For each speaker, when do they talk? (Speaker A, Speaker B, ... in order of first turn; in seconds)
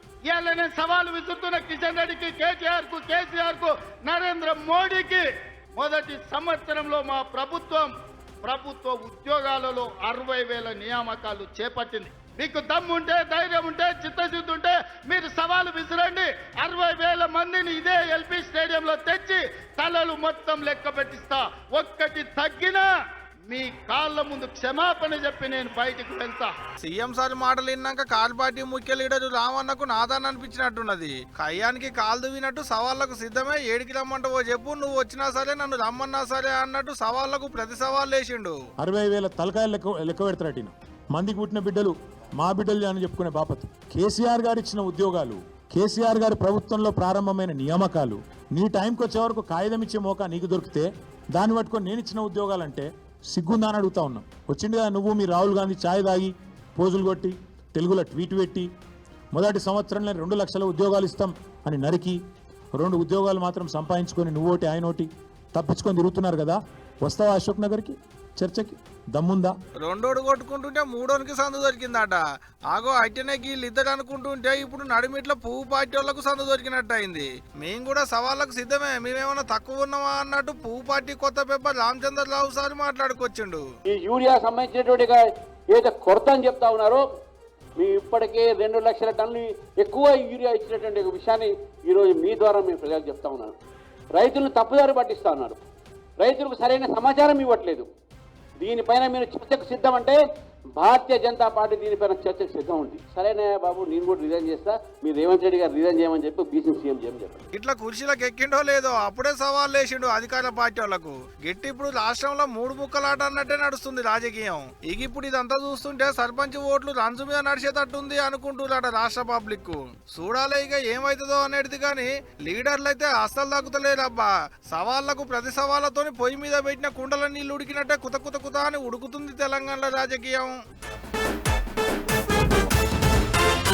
Speaker A: 0.3-7.9, 8.4-22.9, 23.5-26.5
Speaker B: 26.8-38.6, 69.8-72.2, 72.7-83.6, 107.5-130.5
Speaker C: 38.8-58.7, 59.3-62.2, 62.8-69.5
Speaker D: 83.8-87.1, 87.8-93.6, 94.1-95.6, 96.2-97.9, 98.6-100.2, 100.7-107.5